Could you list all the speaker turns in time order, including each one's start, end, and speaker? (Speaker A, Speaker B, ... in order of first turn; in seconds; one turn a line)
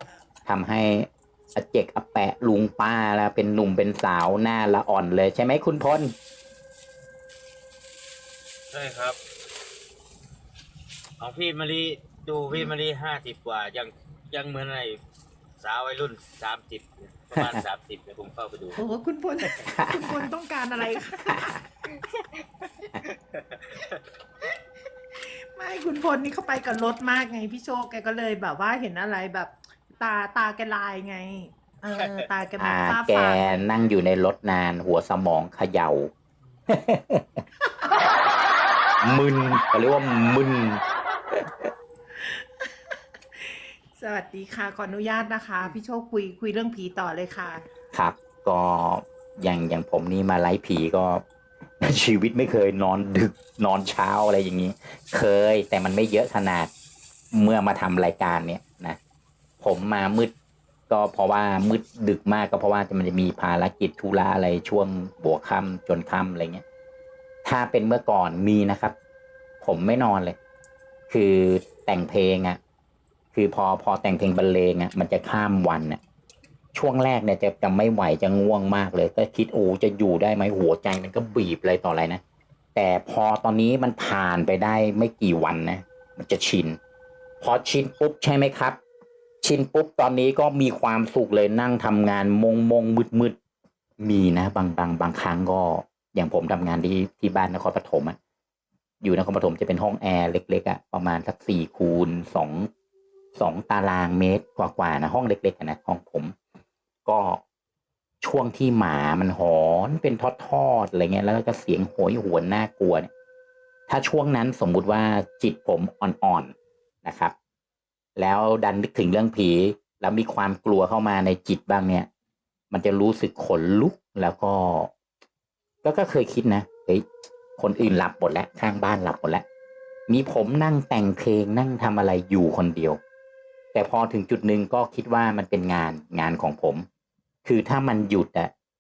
Speaker A: 0.5-6.1
Speaker B: 8.7-9.2
Speaker B: 11.2-15.0
Speaker B: 15.6-18.8
Speaker C: 18.8-22.9
Speaker A: 19.6-20.2
Speaker B: 23.3-24.0
Speaker C: 25.2-33.6
Speaker A: 32.6-36.1
Speaker A: 36.7-37.4
Speaker A: 39.0-41.7
Speaker C: 42.1-47.6
Speaker A: 47.9-51.2
Speaker A: 51.8-56.7
Speaker A: 57.3-59.0
Speaker A: 59.6-60.3
Speaker A: 60.9-66.6
Speaker A: 67.4-69.0
Speaker A: 69.6-70.4
Speaker A: 71.1-72.6
Speaker A: 73.3-76.0
Speaker A: 76.7-82.2
Speaker A: 82.8-86.8
Speaker A: 87.4-88.8
Speaker A: 89.4-93.4
Speaker A: 94.0-98.2
Speaker A: 99.0-102.7
Speaker A: 103.4-106.3
Speaker A: 107.1-107.4
Speaker A: 108.2-113.1
Speaker A: 113.9-116.5
Speaker A: 117.0-117.3
Speaker A: 118.2-122.1
Speaker A: 122.7-124.9
Speaker A: 125.8-127.1
Speaker A: 127.6-129.4
Speaker A: 130.1-133.0
Speaker A: 133.7-136.9
Speaker A: 137.4-138.5